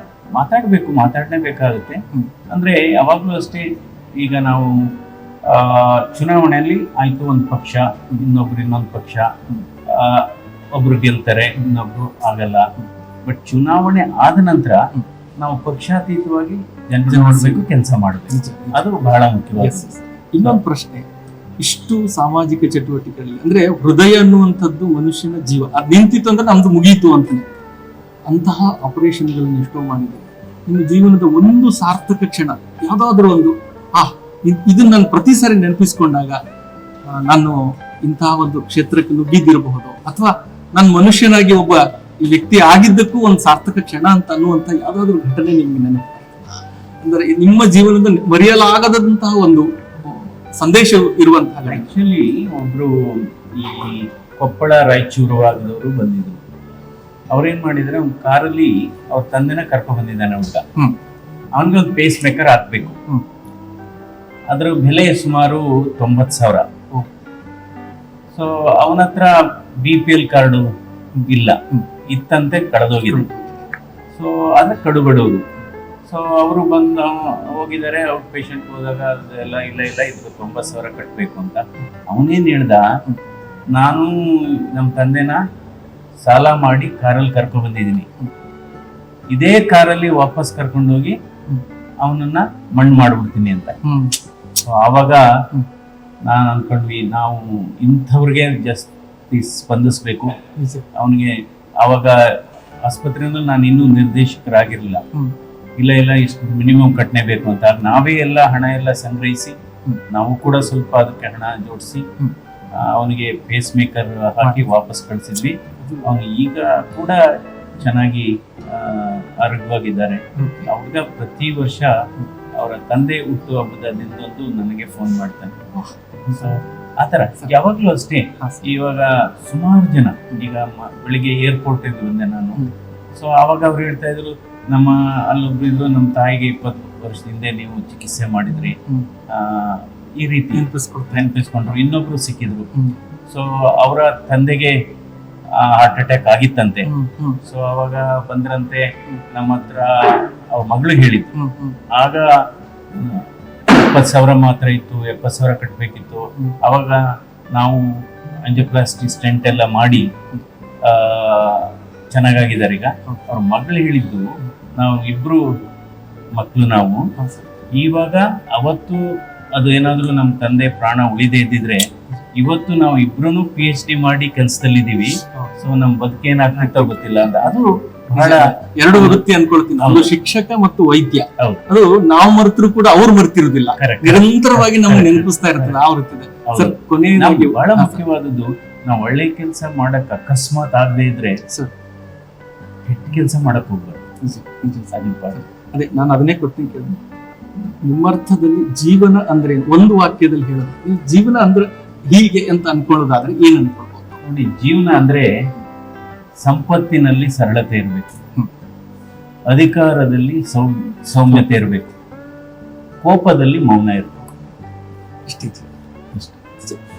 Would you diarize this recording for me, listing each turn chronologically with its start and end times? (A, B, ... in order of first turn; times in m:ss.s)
0:00.4-0:09.3 A
0:09.9-0:12.7 A
0:13.3-0:14.9 A
0:15.4-0:19.9 A
0:17.1-0:17.7 B
0:18.3-0:18.8 B
0:19.6-0:21.1 B
0:21.6-0:27.5 B
0:28.3-0:36.4 B
0:37.1-0:51.9 B
0:51.7-0:56.4 A
0:57.3-1:00.6 A
1:01.6-1:03.0 A
1:04.5-1:06.7 A
1:08.3-1:10.7 A
1:11.2-1:11.9 B
1:11.3-1:13.3 A
1:13.1-1:13.5 B
1:14.1-1:15.4 A
1:16.1-1:22.8 A
1:23.8-1:25.4 A
1:26.3-1:28.1 A
1:29.3-1:31.2 A
1:32.0-1:33.8 A
1:33.8-1:34.2 B
1:34.7-1:35.2 A
1:36.3-1:40.3 A
1:40.6-1:40.9 B
1:40.9-1:45.0 A
1:45.8-1:49.6 A
1:50.1-1:52.1 A
1:52.8-2:01.9 A
1:54.4-1:54.7 B
1:55.8-1:56.1 B
2:00.4-2:00.7 B
2:02.6-2:05.7 A
2:05.8-2:06.6 B
2:06.2-2:18.8 A
2:08.4-2:08.7 B
2:18.8-2:19.1 B
2:19.3-2:22.7 A
2:20.5-2:21.3 B
2:23.3-2:24.8 A
2:25.6-2:26.9 A
2:26.8-2:27.4 B
2:27.4-2:31.4 A
2:31.4-2:31.8 B
2:31.9-2:32.3 A
2:32.9-2:37.0 A
2:37.6-2:37.9 A
2:38.4-2:40.1 A
2:40.8-2:45.4 A
2:46.4-2:47.0 A
2:47.2-2:47.5 B
2:47.7-2:59.2 A
2:55.2-2:55.5 B
2:56.6-2:57.3 B
2:58.1-3:08.0 B
2:59.8-3:00.1 A
3:01.4-3:01.6 A
3:03.8-3:05.8 A
3:06.5-3:11.4 A
3:12.9-3:14.0 A
3:14.2-3:17.0 B
3:14.9-3:15.4 A
3:17.7-3:24.2 B
3:24.2-3:25.3 A
3:26.4-3:28.1 A
3:29.5-3:31.9 A
3:31.3-3:31.6 B
3:33.0-3:34.2 A
3:35.3-3:35.7 B